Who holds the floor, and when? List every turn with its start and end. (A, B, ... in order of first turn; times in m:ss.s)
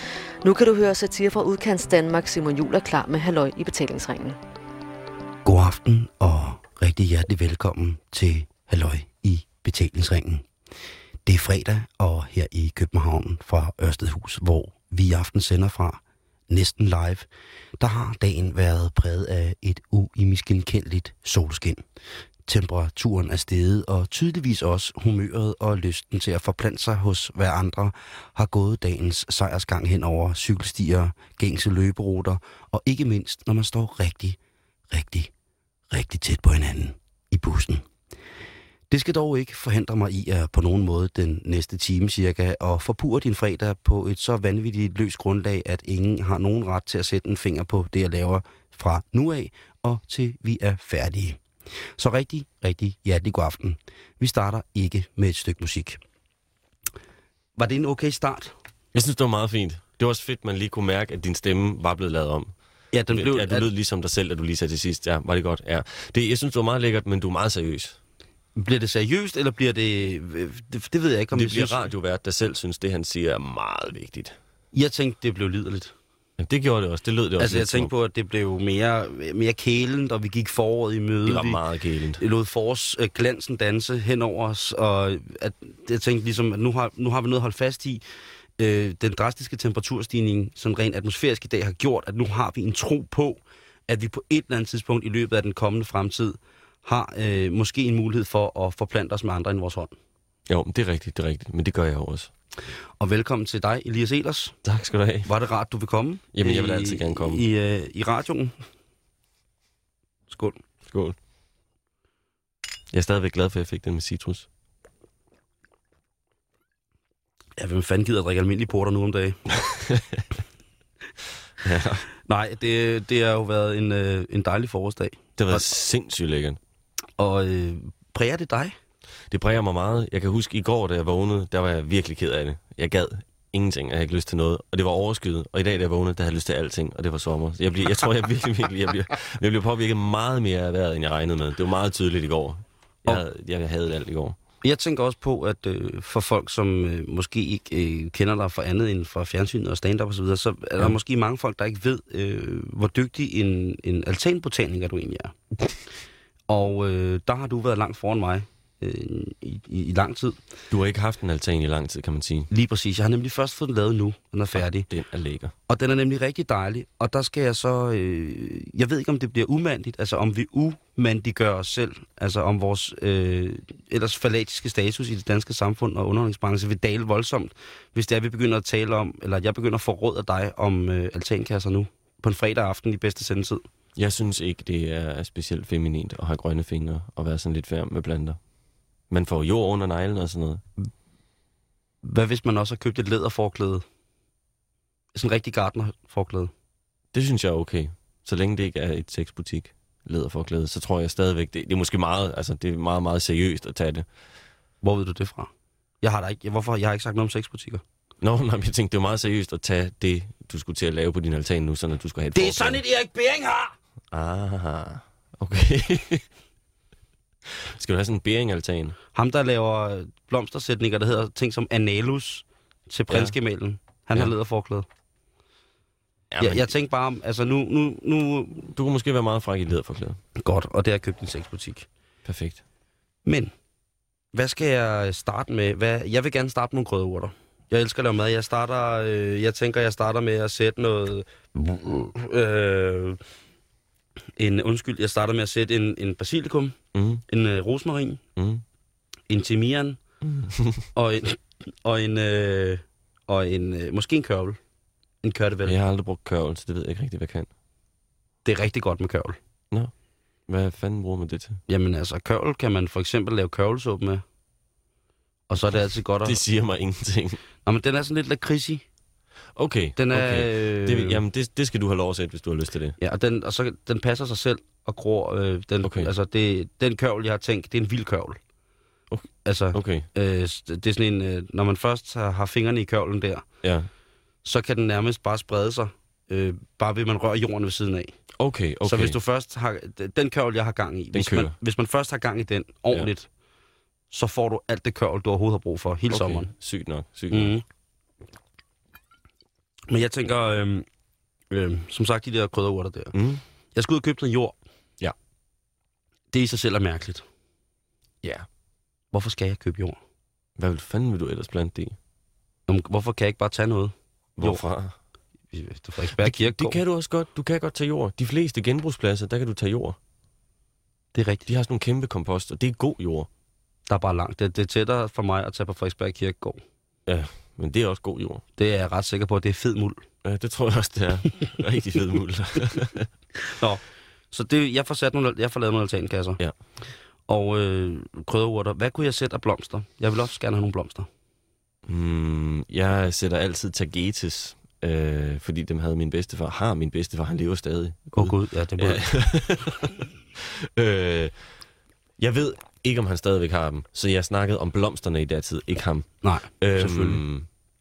0:00.4-0:04.4 A
0:05.4-0:10.4 B
0:11.2-0:17.2 B
0:17.8-0:21.8 B
0:22.5-0:34.4 B
0:34.9-0:35.3 B
0:35.9-0:37.8 B
0:38.9-0:51.4 B
0:52.0-0:56.0 B
0:57.6-0:58.5 B
0:58.9-1:02.5 C
1:02.9-1:03.7 B
1:03.1-1:08.0 C
1:08.6-1:11.8 B
1:11.3-1:14.4 C
1:14.7-1:15.9 B
1:16.4-1:17.9 C
1:17.4-1:21.6 B
1:21.2-1:22.2 C
1:22.2-1:28.0 B
1:28.6-1:39.9 B
1:40.5-1:42.3 C
1:43.0-1:44.6 B
1:44.6-1:45.3 C
1:45.2-1:48.6 B
1:46.3-1:47.4 C
1:50.3-1:50.6 B
1:50.8-1:51.2 C
1:52.9-1:54.5 C
1:57.6-1:59.4 B
1:59.6-2:00.2 C
2:01.6-2:02.0 C
2:02.2-2:05.6 B
2:05.4-2:06.6 C
2:07.2-2:08.7 B
2:09.3-2:24.4 C
2:24.6-2:35.4 B
2:36.5-2:40.4 B
2:40.7-2:42.5 C
2:42.5-2:44.9 B
2:44.5-2:45.5 C
2:45.7-3:03.6 B
3:03.9-3:08.4 C
3:09.1-3:10.6 C
3:12.0-3:13.8 B
3:15.1-3:16.5 B
3:17.1-3:24.1 C
3:24.8-3:25.5 B
3:26.0-3:27.8 B
3:28.2-3:32.8 C
3:32.3-3:33.7 B
3:34.1-3:36.2 C
3:37.4-3:39.0 C
3:39.1-3:44.8 B
3:43.1-3:43.4 C
3:46.3-3:46.7 C
3:46.4-3:48.7 B
3:48.7-3:50.2 C
3:50.4-3:51.8 B
3:52.2-3:52.6 C
3:53.2-3:53.5 B
3:54.3-4:03.2 B
4:04.4-4:06.8 B
4:06.9-4:07.2 C
4:07.3-4:08.2 B
4:08.4-4:08.6 C
4:09.3-4:10.0 B
4:10.2-4:10.8 C
4:10.9-4:14.6 B
4:15.2-4:15.7 B
4:15.6-4:17.5 C
4:18.4-4:19.4 B
4:20.5-4:21.6 C
4:21.7-4:24.2 B
4:25.5-4:26.4 B
4:26.2-4:27.4 C
4:27.6-4:28.8 B
4:29.5-4:33.0 C
4:30.0-4:31.2 B
4:33.0-4:38.4 B
4:35.8-4:36.1 C
4:39.1-4:40.1 C
4:39.4-4:43.4 B
4:43.6-4:43.9 C
4:44.4-4:48.2 B
4:48.4-4:49.2 C
4:48.8-4:53.3 B
4:51.1-4:51.5 C
4:54.1-4:56.5 B
4:56.1-4:57.5 C
4:57.3-4:57.6 B
4:59.9-5:00.8 B
5:01.5-5:03.1 B
5:03.1-5:03.4 C
5:03.7-5:04.6 B
5:06.3-5:07.2 B
5:09.1-5:10.0 B
5:10.6-5:12.0 C
5:12.7-5:14.6 B
5:14.4-5:15.0 C
5:15.5-5:16.8 B
5:16.2-5:20.0 C
5:21.1-5:21.4 B
5:21.4-5:23.3 C
5:23.9-5:26.6 B
5:27.0-5:28.4 C
5:28.6-5:30.0 B
5:30.2-5:33.1 C
5:33.5-5:36.4 B
5:37.3-5:41.1 B
5:41.8-5:51.4 C
5:48.2-5:49.1 B
5:52.2-5:57.5 C
5:56.2-5:57.2 B